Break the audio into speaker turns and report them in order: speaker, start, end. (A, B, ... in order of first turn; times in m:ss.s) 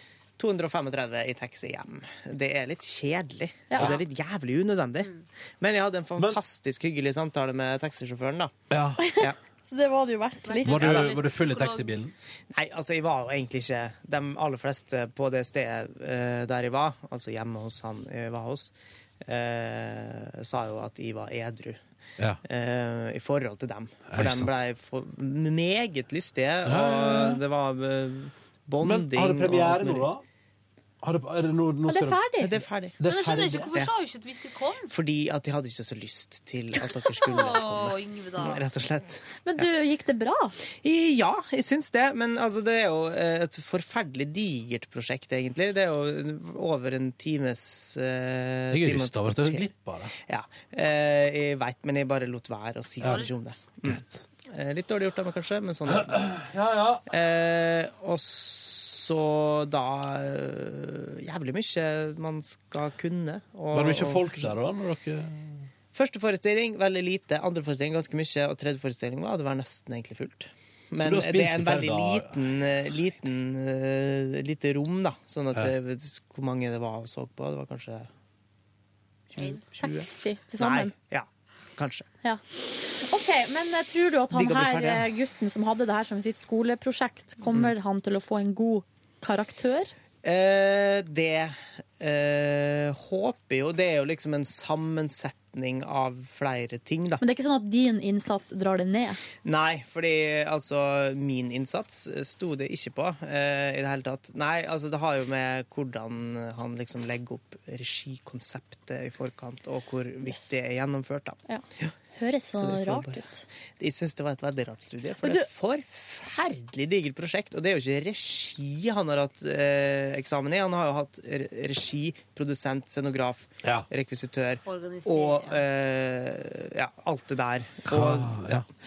0:00.4-0:08.5 A
0:03.7-0:04.0 B
0:08.7-0:09.0 C
0:09.0-0:11.2 B
0:10.4-0:12.0 D
0:10.6-0:12.1 C
0:12.5-0:21.8 A
0:22.4-0:30.1 A
0:24.1-0:24.6 C
0:26.6-0:27.4 C
0:28.8-0:30.2 C
0:31.0-0:32.2 C
0:31.9-0:32.6 B
0:32.4-0:33.0 A
0:33.0-0:33.7 C
0:33.0-0:34.9 D
0:34.9-0:39.7 A
0:36.8-0:38.7 D
0:39.4-0:40.6 B
0:40.8-0:56.4 A
0:48.7-0:50.1 C
0:53.0-0:53.3 D
0:53.8-0:54.2 C
0:55.9-0:57.0 C
0:57.1-1:04.6 A
1:03.7-1:05.7 C
1:05.9-1:18.1 A
1:11.0-1:12.5 C
1:19.3-1:22.1 A
1:19.4-1:20.9 B
1:19.4-1:19.6 D
1:23.0-1:29.9 B
1:24.3-1:25.1 A
1:30.2-1:37.2 A
1:37.2-1:39.2 B
1:39.4-1:51.9 A
1:52.2-1:53.4 B
1:52.5-1:53.2 A
1:53.8-2:08.6 A
1:55.2-1:55.5 B
2:04.7-2:05.6 D
2:07.9-2:08.6 C